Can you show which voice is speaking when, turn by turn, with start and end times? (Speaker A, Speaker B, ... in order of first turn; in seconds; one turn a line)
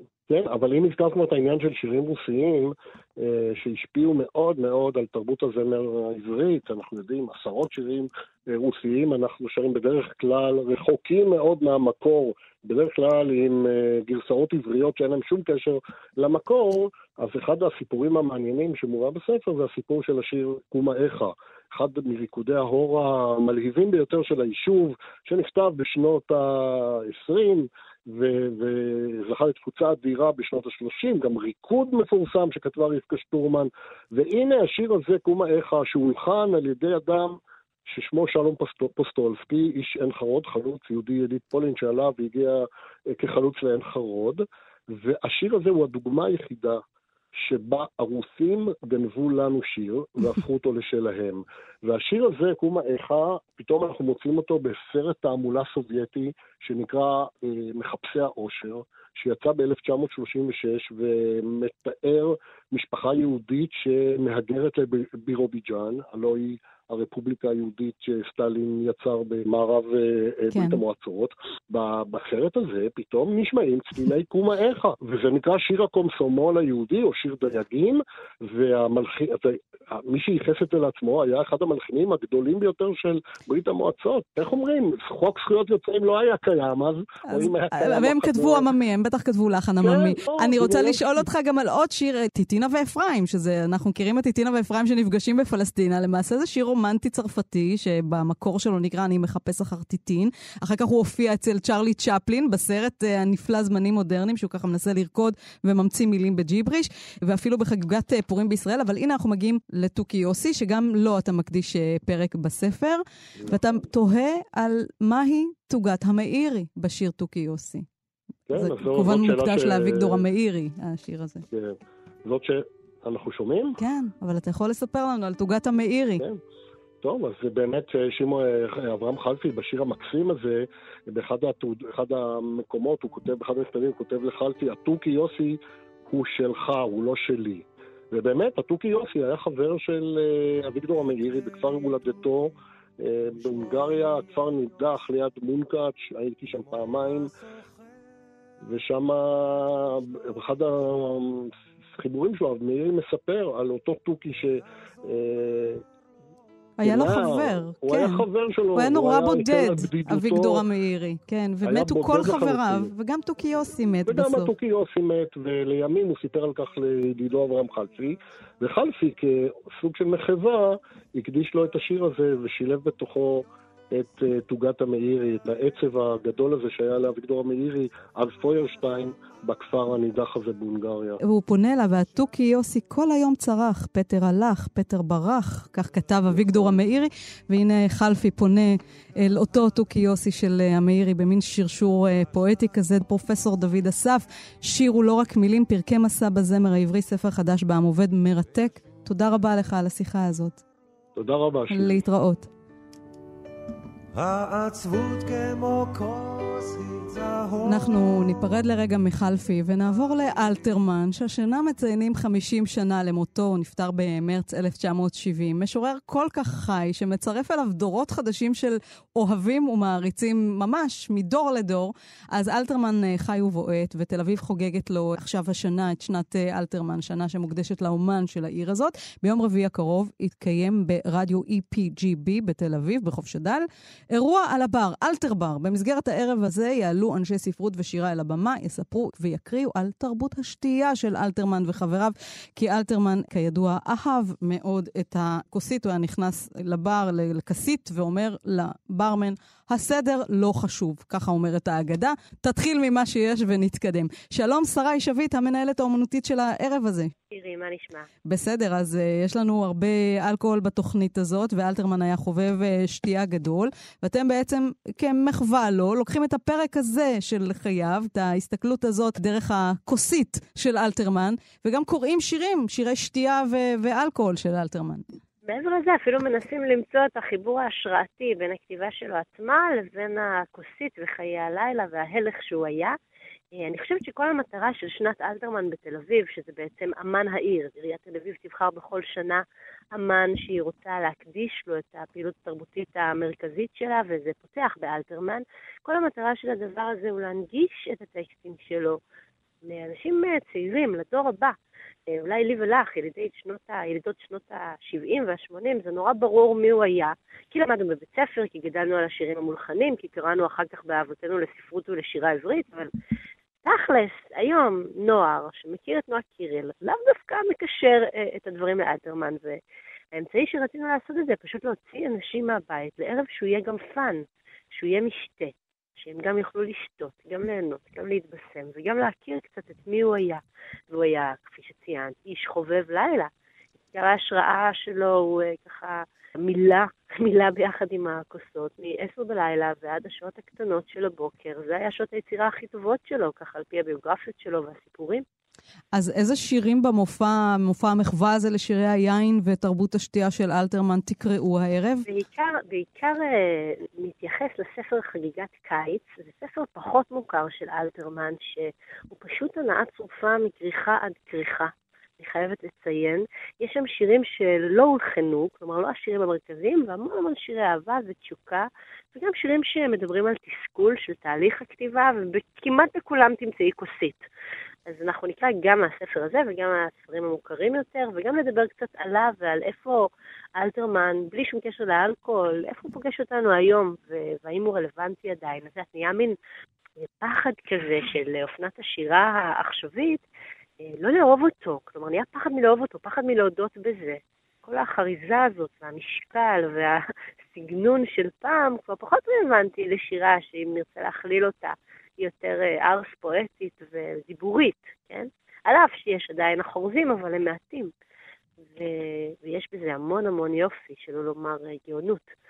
Speaker A: 0.3-46.8
Speaker A: 47.3-88.7
Speaker B: 70.5-70.8
Speaker B: 87.3-117.8
Speaker A: 89.8-91.2
Speaker A: 113.4-113.6
Speaker A: 118.5-120.2
Speaker B: 118.5-121.4
Speaker A: 121.5-123.8
Speaker B: 123.8-126.2
Speaker A: 127.0-135.6
Speaker A: 136.1-147.3
Speaker C: 146.6-147.9
Speaker A: 148.6-155.8
Speaker B: 156.8-164.5
Speaker A: 156.8-160.6
Speaker A: 161.6-162.9
Speaker A: 164.1-181.2
Speaker B: 181.2-200.6
Speaker A: 186.3-186.7
Speaker A: 201.2-202.0
Speaker B: 201.7-202.5
Speaker C: 204.1-208.0
Speaker B: 207.6-257.1
Speaker D: 257.3-258.1
Speaker B: 258.3-275.0
Speaker D: 275.4-282.9
Speaker D: 283.5-299.0
Speaker D: 299.6-301.6
Speaker D: 302.1-312.9
Speaker D: 313.6-319.6
Speaker D: 320.1-333.3
Speaker D: 333.9-345.2
Speaker B: 345.9-352.1
Speaker D: 352.1-374.2
Speaker D: 374.9-386.4
Speaker D: 387.0-390.2
Speaker D: 390.8-397.0
Speaker D: 397.5-407.9
Speaker D: 408.6-412.3